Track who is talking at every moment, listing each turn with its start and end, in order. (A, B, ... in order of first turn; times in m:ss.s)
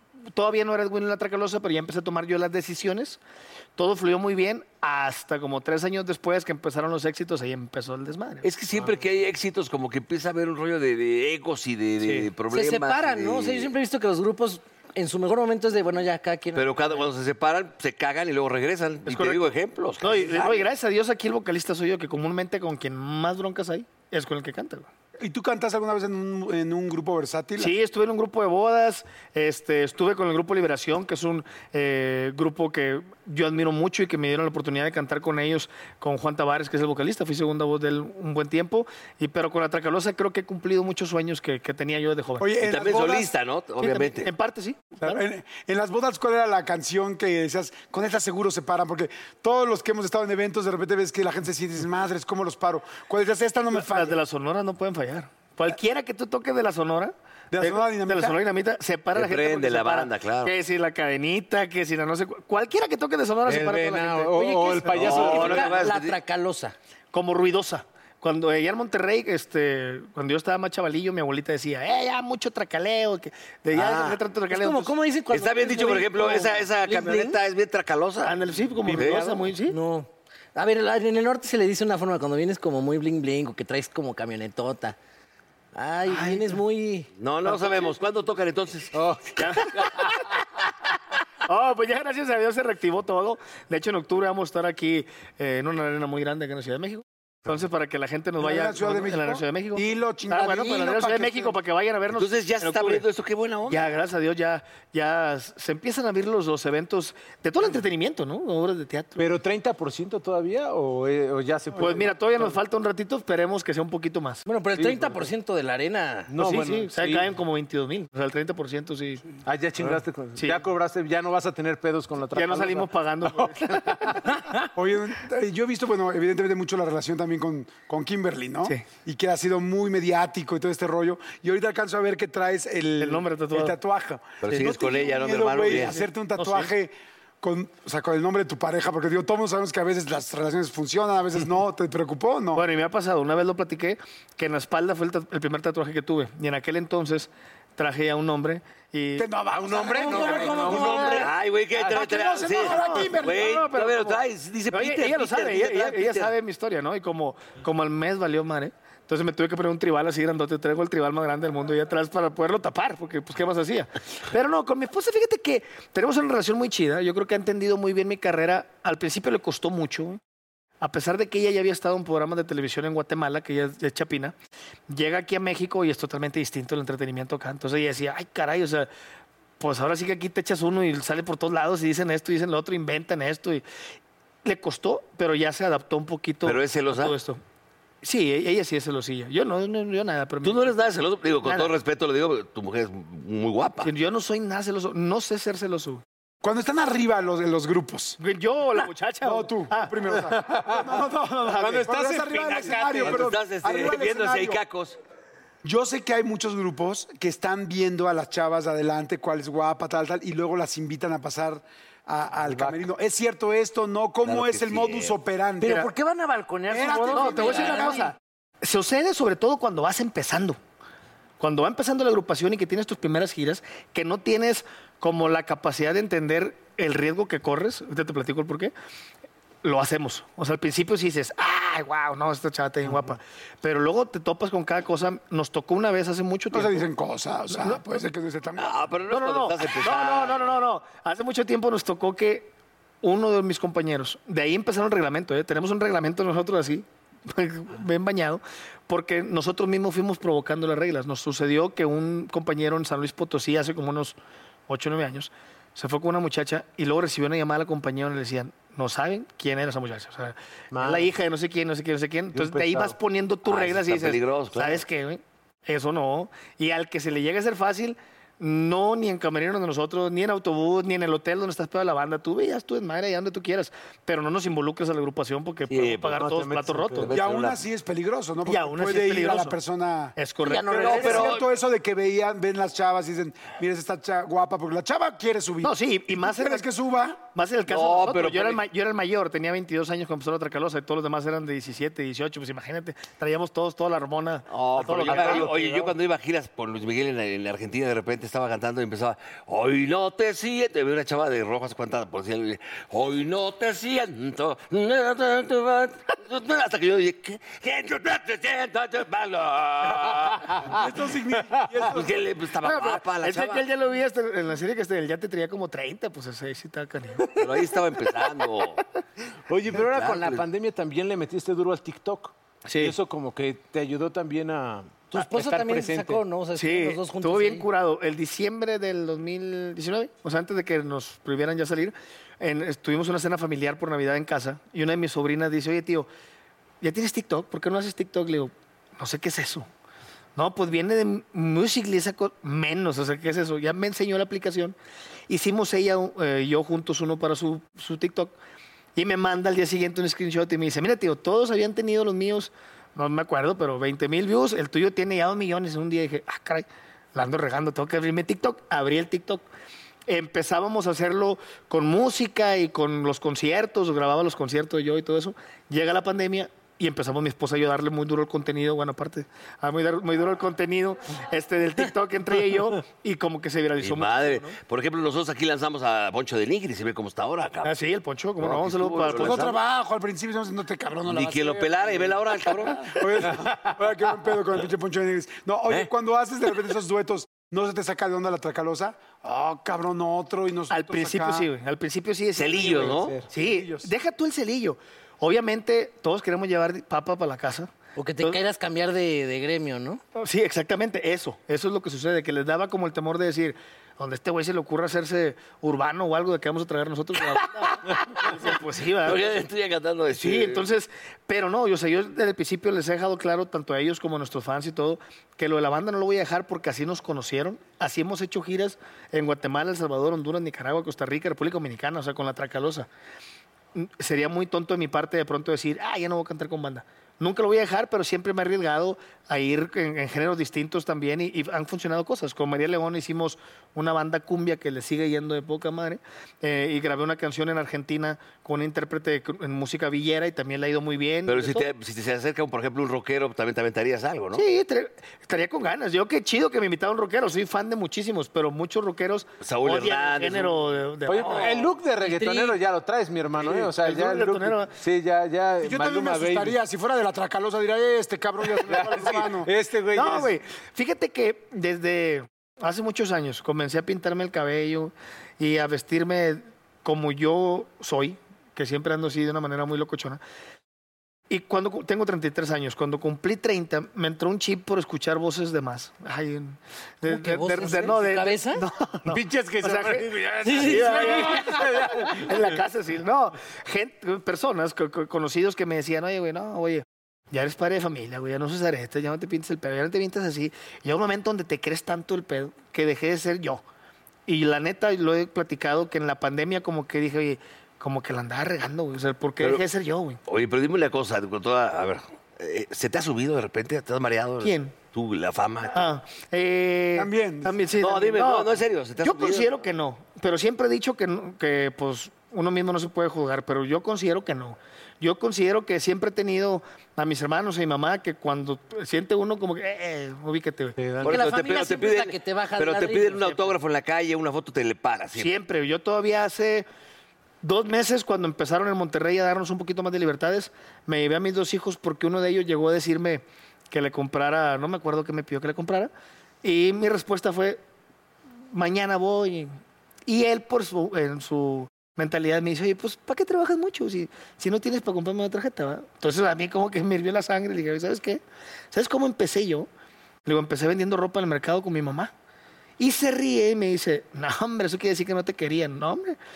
0:00.3-0:03.2 A
0:03.8-0:08.5 A
0:08.4-0:13.7 B
0:12.5-0:17.0 C
0:16.5-0:20.7 B
0:19.1-0:19.4 A
0:20.0-0:24.9 A
0:25.2-0:27.7 D
0:27.6-0:42.5 A
0:42.4-0:43.3 D
0:42.6-0:44.3 B
0:43.8-0:45.2 A
0:45.0-0:54.2 D
0:53.7-1:05.8 A
0:57.5-0:58.4 D
0:59.1-1:00.5 B
1:03.4-1:05.7 E
1:04.3-1:06.7 C
1:04.9-1:06.2 B
1:07.1-1:14.9 A
1:13.8-1:17.4 C
1:15.3-1:18.4 B
1:18.2-1:19.8 A
1:18.8-1:19.5 E
1:19.0-1:19.2 B
1:19.7-1:25.0 C
1:25.7-1:27.1 C
1:26.1-1:26.5 A
1:27.1-1:29.0 B
1:28.9-1:30.1 E
1:29.4-1:30.2 A
1:31.4-1:43.0 A
1:38.4-1:41.5 D
1:42.1-1:44.0 B
1:43.7-1:49.3 A
1:49.2-1:52.5 E
1:51.7-1:54.4 A
1:54.4-1:56.3 C
1:54.8-1:55.3 E
1:56.3-1:57.3 E
1:56.4-1:59.2 A
1:59.4-2:04.5 E
2:00.3-2:00.6 A
2:02.3-2:04.3 A
2:04.8-2:22.6 D
2:13.0-2:13.8 A
2:14.4-2:16.0 B
2:15.7-2:16.7 A
2:22.5-2:29.3 A
2:29.2-2:31.2 D
2:29.5-2:32.0 E
2:29.8-2:31.3 C
2:31.0-2:36.3 B
2:31.8-2:33.5 D
2:32.6-2:50.2 A
2:50.8-2:54.3 A
2:54.9-2:58.9 A
2:59.6-3:03.6 A
3:04.4-3:07.4 A
3:06.4-3:07.2 B
3:08.0-3:10.8 A
3:10.4-3:13.9 B
3:11.4-3:11.7 A
3:13.8-3:16.0 A
3:16.4-3:18.2 D
3:18.2-3:20.0 A
3:19.2-3:24.6 D
3:20.1-3:20.9 E
3:21.4-3:21.9 A
3:21.6-3:23.4 E
3:22.6-3:25.0 B
3:25.6-3:35.9 D
3:32.4-3:32.9 E
3:34.2-3:35.2 B
3:35.6-3:38.1 C
3:36.7-3:38.1 D
3:37.1-3:40.6 A
3:41.4-3:48.7 A
3:49.6-3:56.9 A
3:56.5-3:58.8 D
3:57.5-3:57.8 A
3:58.6-4:00.5 B
3:59.1-4:02.5 A
4:03.0-4:14.2 A
4:14.7-4:37.1 A
4:20.7-4:21.1 E
4:22.3-4:23.0 E
4:23.4-4:24.8 B
4:35.7-4:36.2 B
4:36.2-4:37.1 E
4:37.0-4:37.6 B
4:37.1-4:40.1 D
4:38.4-4:39.6 A
4:40.2-4:41.2 A
4:40.4-4:41.3 C
4:40.6-4:41.5 B
4:40.8-4:47.2 D
4:45.6-4:46.7 A
4:47.3-4:55.9 A
4:47.7-4:48.6 B
4:54.5-5:10.7 B
4:55.1-4:55.5 E
5:10.6-5:12.2 D
5:10.7-5:11.9 E
5:11.9-5:13.7 B
5:12.6-5:17.5 A
5:17.3-5:18.8 B
5:19.5-5:26.2 E
5:19.7-5:20.4 B
5:22.6-5:23.0 A
5:25.1-5:27.7 C
5:26.5-5:36.1 A
5:36.8-5:39.7 A
5:40.4-5:44.7 A
5:45.3-5:48.3 A
5:48.9-5:59.4 A
6:00.1-6:14.6 A
6:13.8-6:17.7 B
6:17.6-6:19.4 A
6:18.4-6:19.6 B
6:19.1-6:22.2 D
6:21.0-6:23.2 B
6:22.9-6:31.5 D
6:23.3-6:23.7 E
6:30.7-6:38.4 A
6:32.4-6:33.2 B
6:32.5-6:33.9 E
6:38.0-6:40.0 C
6:40.1-6:49.3 A
6:47.2-6:50.6 B
6:50.2-7:02.9 A
7:03.7-7:21.7 A
7:21.3-7:24.4 B
7:24.3-7:31.5 A
7:29.4-7:30.6 B
7:31.1-7:36.6 E
7:31.2-7:31.7 B
7:32.0-7:32.6 C
7:33.4-7:34.7 A
7:35.6-7:39.5 D
7:38.6-7:40.3 E
7:39.9-7:50.2 A
7:51.3-8:13.6 A
7:57.0-7:58.6 C
7:59.1-8:02.6 E
8:00.4-8:01.6 C
8:14.3-8:20.2 A
8:19.4-8:19.6 B
8:20.3-8:25.9 B
8:24.4-8:24.8 A
8:25.7-8:40.8 A
8:27.0-8:27.6 D
8:27.8-8:29.6 B
8:40.8-8:41.2 E
8:41.0-8:45.4 B
8:41.0-8:43.5 C
8:45.1-8:46.6 A
8:47.4-8:55.9 A
8:56.4-8:57.6 A
8:58.5-8:59.5 A
9:00.1-9:09.7 A
9:10.2-9:12.1 A
9:12.8-9:16.2 A